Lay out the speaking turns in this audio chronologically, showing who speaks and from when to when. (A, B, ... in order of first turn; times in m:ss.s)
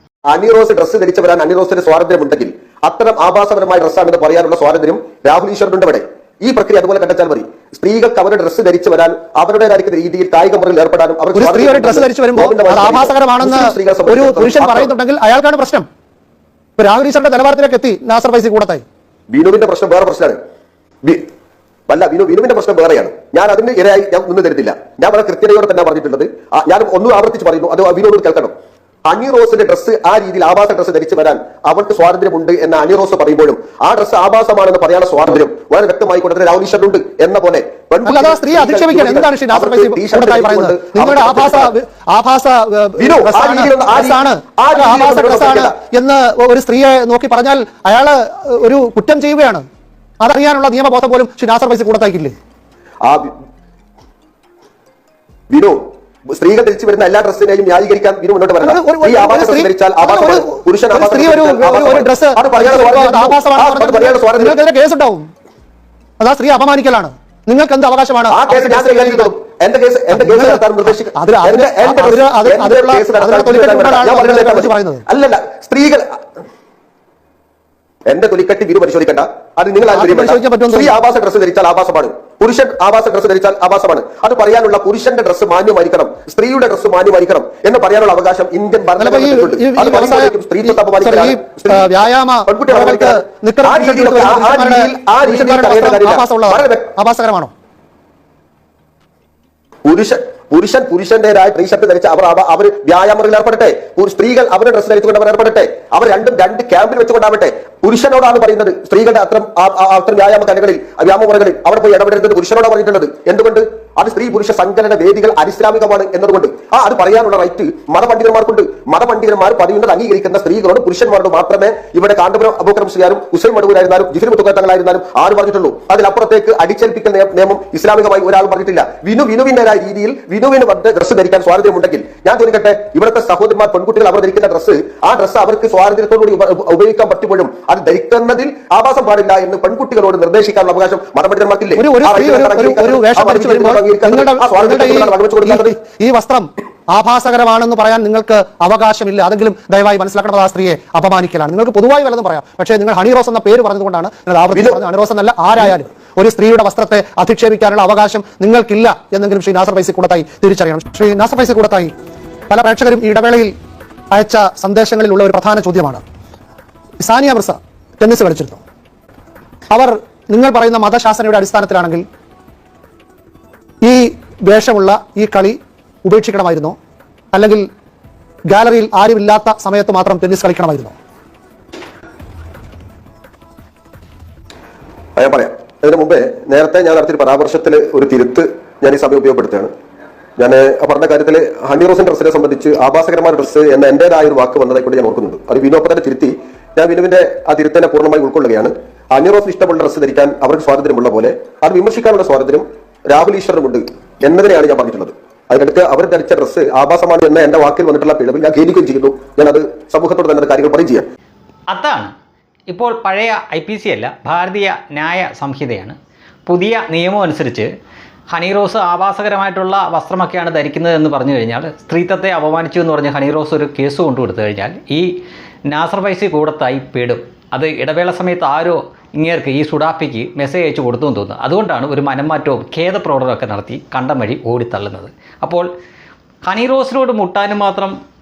0:00.3-0:14.9 A
0:11.3-0:15.9 B
0:16.8-0:18.8 B
0:19.3-0:20.4 A
0:21.0-0:21.3 A
0:21.9-0:28.5 A
0:29.0-0:41.7 A
0:38.0-0:49.7 B
0:43.0-0:45.8 A
0:50.2-0:52.3 B
0:53.0-0:53.3 A
0:55.5-1:04.6 A
0:58.6-1:05.3 B
1:06.2-1:09.3 B
1:08.3-1:16.2 A
1:10.1-1:15.0 B
1:18.1-1:31.9 A
1:19.9-1:20.9 B
1:29.0-1:37.5 B
1:32.5-1:36.9 A
1:39.8-2:25.8 A
2:21.8-2:41.9 B
2:34.5-2:34.8 A
2:42.5-2:43.5 B
2:44.1-2:46.0 B
2:47.0-2:48.6 B
2:49.7-2:52.0 B
2:53.8-2:56.8 B
2:57.3-2:57.7 B
2:58.5-3:00.9 B
3:05.2-3:09.7 A
3:10.4-3:31.1 A
3:31.7-3:32.1 C
3:32.7-3:37.7 C
3:38.3-3:45.1 C
3:45.7-3:55.7 C
3:56.4-3:58.0 C